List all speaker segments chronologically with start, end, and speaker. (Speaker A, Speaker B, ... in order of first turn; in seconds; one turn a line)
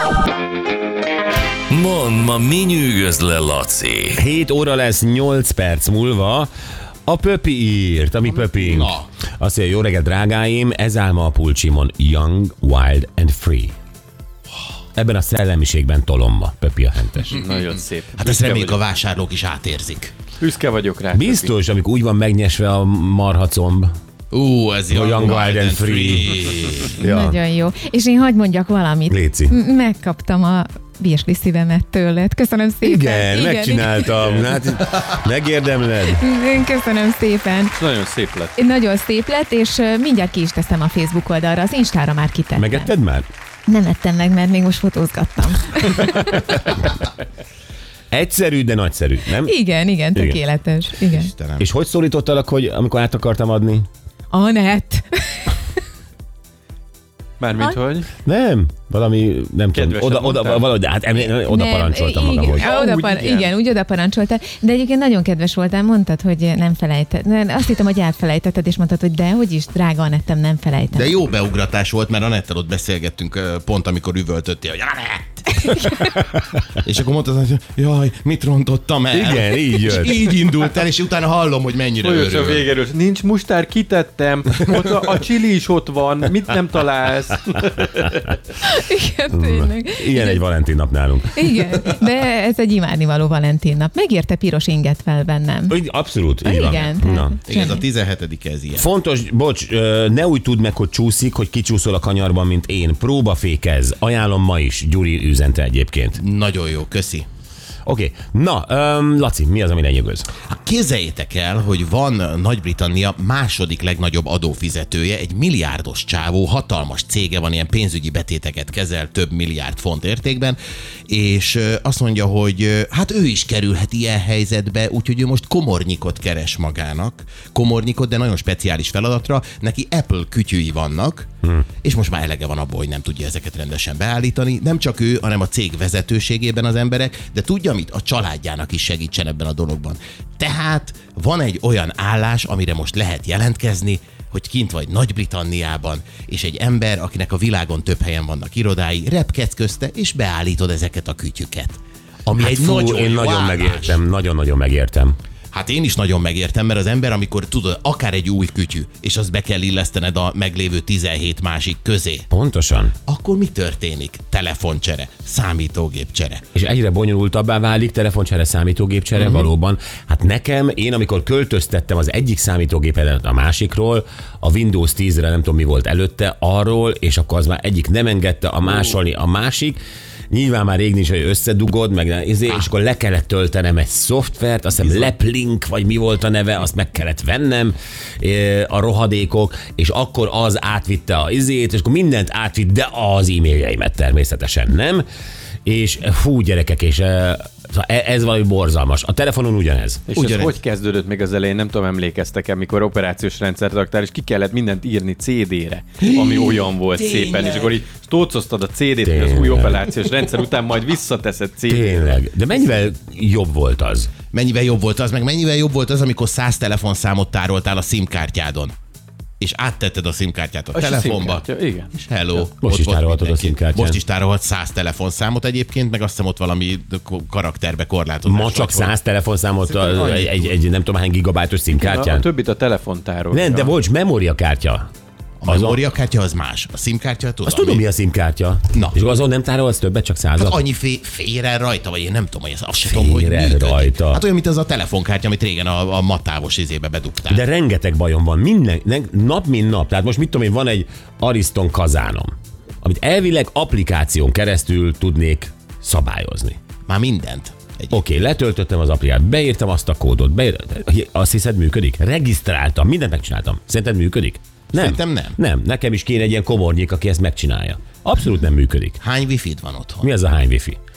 Speaker A: 1.7-4.2
Speaker B: 4.1-6.5
Speaker B: 7.1-13.7
Speaker C: 8.6-9.0
Speaker B: 14.9-17.4
Speaker D: 17.3-18.8
Speaker C: 18.2-20.1
Speaker D: 20.4-21.5
Speaker B: 21.1-23.9
Speaker C: 24.3-27.0
Speaker B: 24.9-26.4
Speaker B: 26.9-27.4
Speaker E: 27.0-34.2
Speaker B: 29.1-29.6
Speaker B: 32.8-36.2
Speaker E: 36.0-37.7
Speaker D: 37.7-38.5
Speaker E: 38.6-42.9
Speaker B: 42.5-43.3
Speaker E: 43.7-46.6
Speaker B: 48.1-49.6
Speaker E: 49.4-51.3
Speaker B: 50.1-50.4
Speaker C: 51.1-51.7
Speaker B: 51.6-53.9
Speaker E: 54.3-55.6
Speaker D: 57.4-58.1
Speaker B: 58.2-62.7
Speaker D: 59.7-60.7
Speaker E: 61.3-71.1
Speaker D: 62.5-63.5
Speaker C: 70.9-75.7
Speaker E: 75.7-76.0
Speaker C: 76.8-82.7
Speaker B: 79.1-80.3
Speaker D: 82.0-88.3
Speaker E: 88.6-90.4
Speaker B: 89.3-91.8
Speaker E: 91.3-95.8
Speaker B: 95.7-97.4
Speaker E: 96.4-97.8
Speaker C: 97.5-98.9
Speaker B: 98.7-106.2
Speaker C: 106.2-107.2
Speaker B: 107.8-110.3
Speaker C: 110.5-131.3
Speaker C: 131.8-154.0
Speaker B: 152.4-155.2
Speaker C: 155.5-162.3
Speaker B: 162.3-162.9
Speaker C: 163.1-166.4
Speaker B: 166.5-179.8
Speaker C: 169.2-169.4
Speaker B: 180.3-195.0
Speaker C: 184.8-185.1
Speaker B: 195.6-200.0
Speaker D: 200.1-212.4
Speaker C: 200.1-200.5
Speaker C: 206.0-207.7
Speaker B: 209.0-209.9
Speaker B: 211.7-214.1
Speaker C: 214.3-218.7
Speaker C: 219.4-228.9
Speaker D: 220.7-221.9
Speaker B: 222.6-224.0
Speaker B: 228.2-232.3
Speaker C: 229.7-230.5
Speaker D: 231.7-233.7
Speaker B: 233.3-234.8
Speaker C: 235.4-237.8
Speaker B: 235.4-235.8
Speaker B: 237.4-240.6
Speaker C: 240.3-247.4
Speaker B: 242.8-244.2
Speaker B: 247.3-252.3
Speaker B: 252.8-256.6
Speaker C: 256.9-258.0
Speaker B: 257.9-269.0
Speaker C: 264.7-265.4
Speaker C: 269.0-270.1
Speaker B: 270.0-270.8